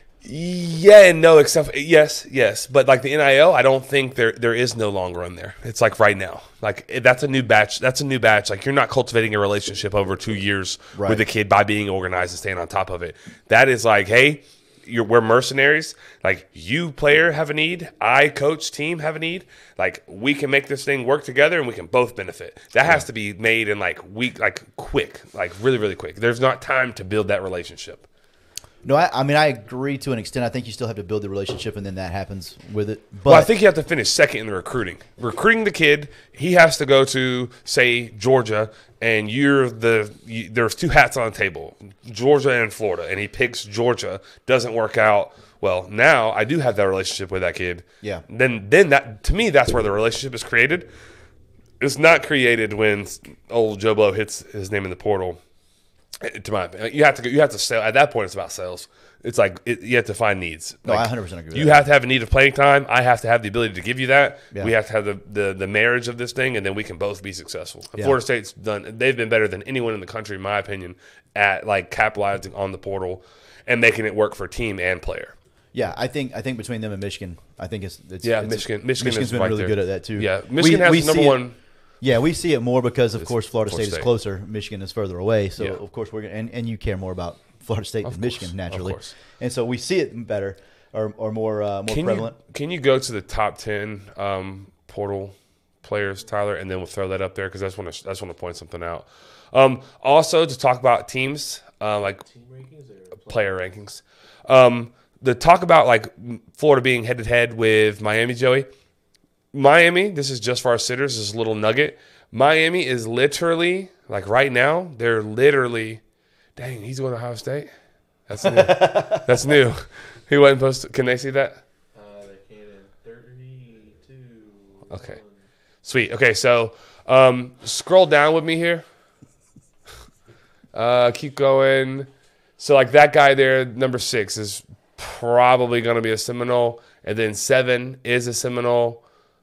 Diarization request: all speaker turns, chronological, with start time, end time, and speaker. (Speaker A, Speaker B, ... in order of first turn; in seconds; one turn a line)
Speaker A: 0.2-28.1
Speaker B: 10.9-11.2
Speaker B: 28.8-33.5
Speaker A: 33.3-50.9
Speaker A: 51.8-55.4
Speaker A: 56.2-75.3
Speaker B: 60.9-61.9
Speaker B: 75.7-81.4
Speaker A: 78.2-81.5
Speaker B: 82.0-92.3
Speaker A: 83.2-84.1
Speaker A: 88.0-89.1
Speaker A: 91.9-102.2
Speaker C: 102.2-103.6
Speaker A: 103.3-108.7
Speaker A: 109.5-116.0
Speaker A: 116.5-117.7
Speaker A: 118.3-121.6
Speaker B: 118.4-119.3
Speaker C: 121.9-125.4
Speaker A: 124.9-125.2
Speaker A: 125.8-128.8
Speaker A: 130.7-139.0